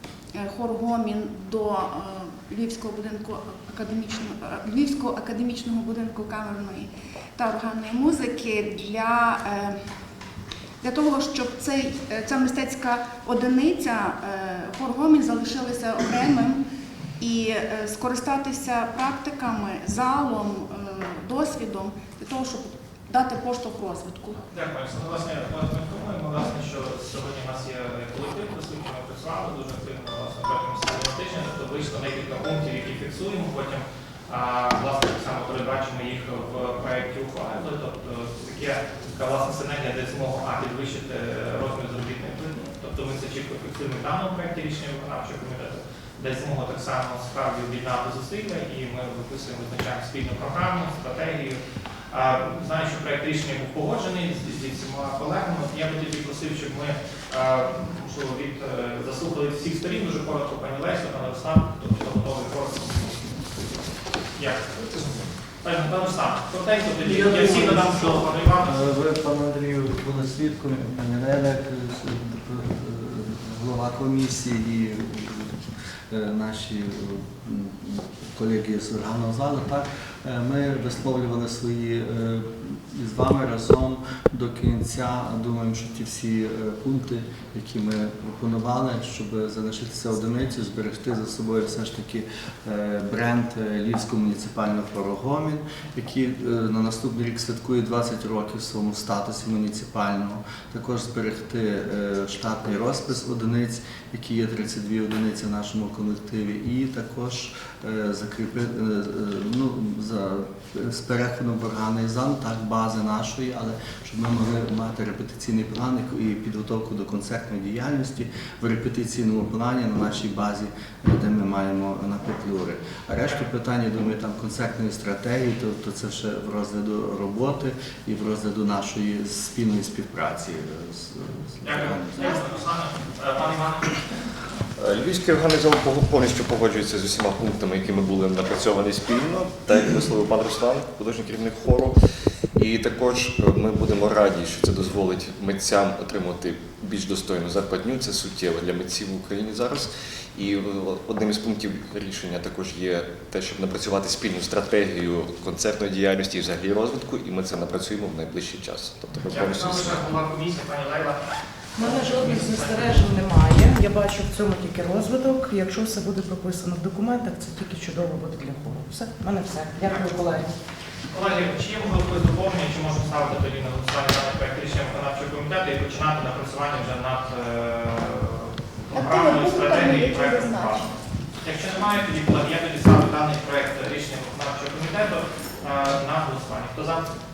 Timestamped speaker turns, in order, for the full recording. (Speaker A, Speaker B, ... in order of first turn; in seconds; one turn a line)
Speaker A: 0.3-9.8
Speaker A: 10.8-16.6
Speaker A: 17.2-24.4
Speaker B: 24.5-63.4
Speaker B: 64.3-68.8
Speaker C: 67.0-132.4
Speaker B: 131.6-134.0
Speaker D: 134.8-141.9
Speaker D: 142.5-160.0
Speaker B: 159.3-161.2
Speaker B: 161.8-163.1
Speaker E: 161.8-170.5
Speaker B: 169.8-170.3
Speaker B: 171.1-187.1
Speaker A: 178.9-180.9